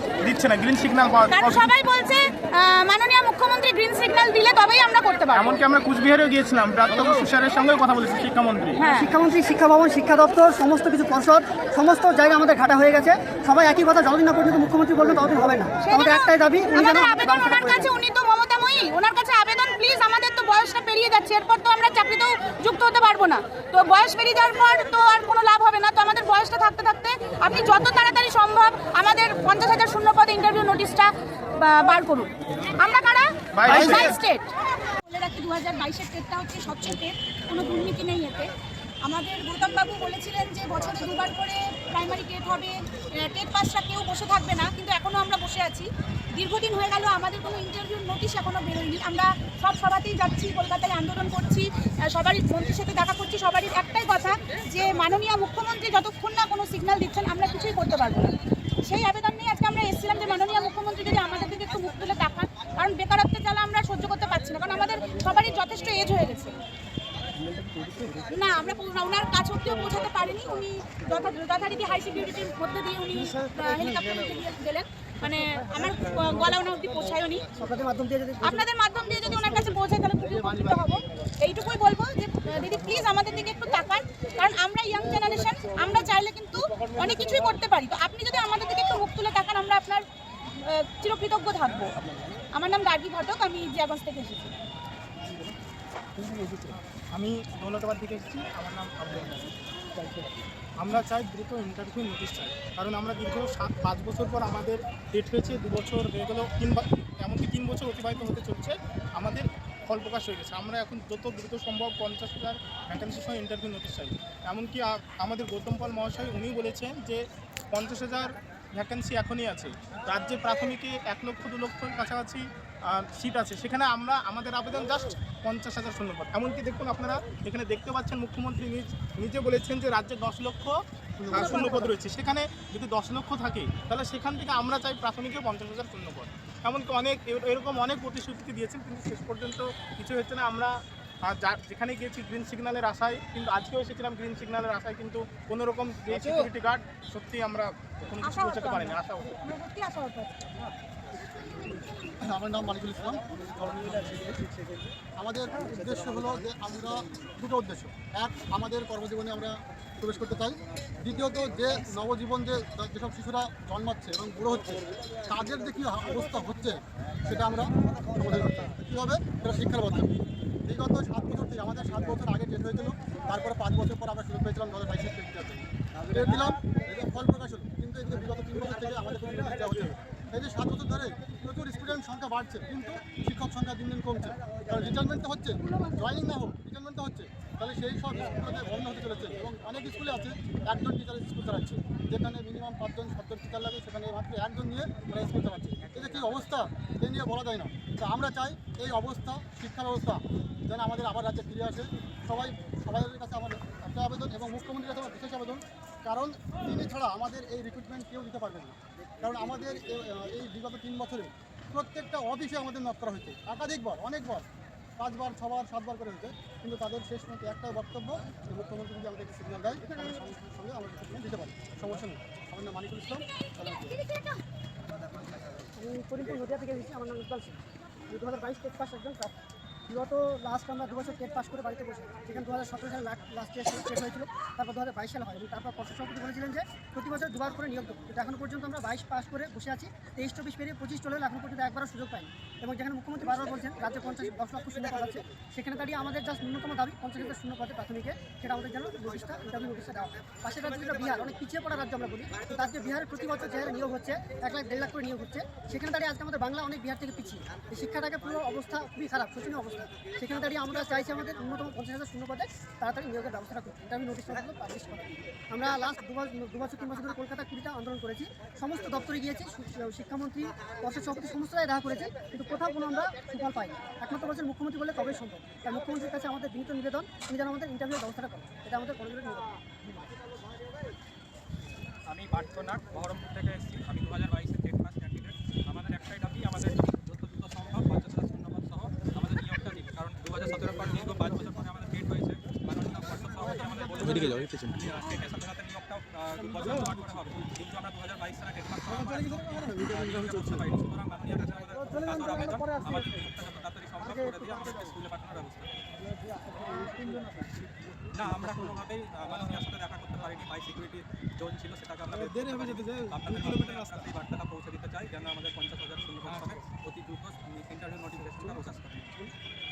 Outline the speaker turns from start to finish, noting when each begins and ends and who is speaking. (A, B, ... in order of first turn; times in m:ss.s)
0:00.2-0:01.7 A
0:01.3-0:05.5 B
0:05.3-0:08.8 A
0:08.8-0:09.1 B
0:08.9-0:17.9 C
0:15.8-1:06.6 B
0:33.5-0:34.2 A
1:08.2-1:17.5 B
1:17.6-1:18.7 C
1:18.4-1:30.0 B
1:30.6-1:32.0 B
1:32.5-1:34.6 B
1:36.5-1:39.5 A
1:40.8-2:10.8 A
2:11.2-2:11.9 C
2:11.3-2:29.4 A
2:28.2-2:30.5 B
2:32.2-2:34.4 D
2:35.2-3:44.0 D
3:44.0-3:44.4 B
3:45.8-3:47.6 C
3:48.1-3:49.3 C
3:49.9-4:39.6 C
4:42.1-5:05.7 E
4:56.6-4:56.9 D
4:59.4-4:59.8 D
5:06.4-5:07.9 D
5:08.1-5:19.2 E
5:12.2-5:14.1 D
5:16.3-5:16.6 D
5:18.4-5:18.6 D